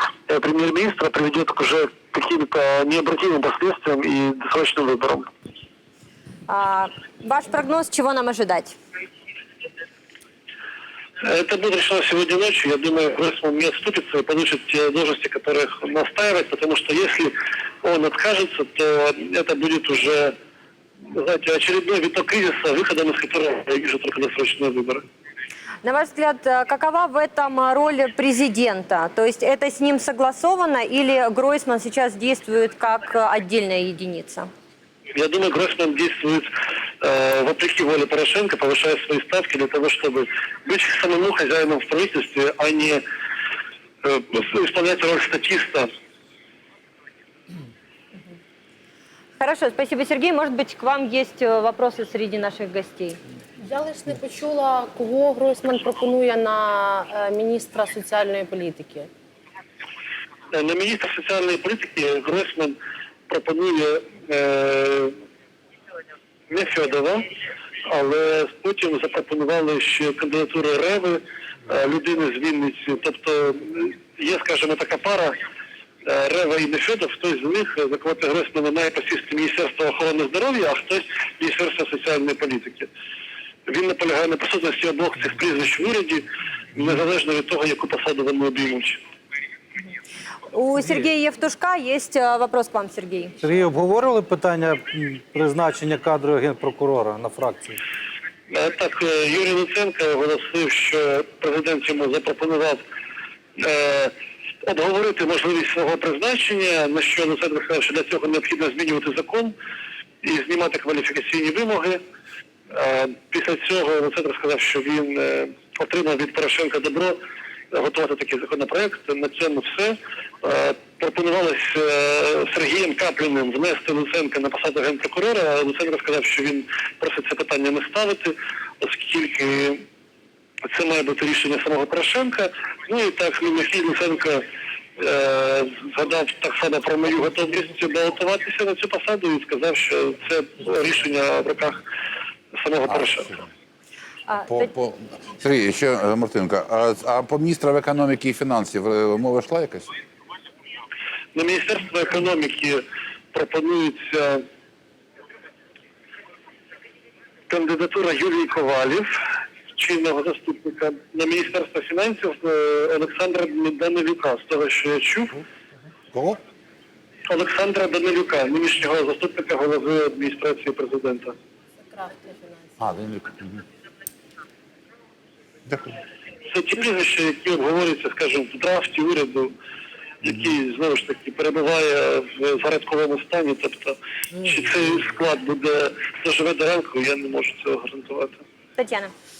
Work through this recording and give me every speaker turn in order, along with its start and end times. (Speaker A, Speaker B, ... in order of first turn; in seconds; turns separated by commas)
Speaker A: 0.3-5.3, Speaker B: 6.5-8.8, Speaker A: 11.2-20.3, Speaker A: 21.1-25.0, Speaker B: 25.8-34.5, Speaker A: 35.1-43.0, Speaker A: 44.0-45.9, Speaker B: 49.4-53.2, Speaker C: 53.6-59.1, Speaker A: 60.5-62.8, Speaker A: 63.3-65.2, Speaker A: 66.5-67.2, Speaker A: 67.8-75.3, Speaker A: 76.0-82.9, Speaker A: 83.7-89.0, Speaker B: 90.5-93.4, Speaker D: 93.4-97.8, Speaker A: 98.5-102.8, Speaker A: 103.6-109.5, Speaker A: 110.2-112.0, Speaker A: 112.7-117.2, Speaker A: 117.7-129.8, Speaker A: 130.7-134.4, Speaker A: 135.0-141.8, Speaker A: 142.5-143.3, Speaker B: 144.3-144.7, Speaker E: 144.5-149.9, Speaker A: 151.3-154.4, Speaker A: 157.5-159.1, Speaker A: 159.8-165.4, Speaker E: 166.1-166.4, Speaker A: 167.3-171.3, Speaker C: 171.9-172.7, Speaker E: 172.8-173.6, Speaker E: 175.7-176.0, Speaker A: 176.5-179.5, Speaker A: 180.2-188.4, Speaker B: 188.8-189.1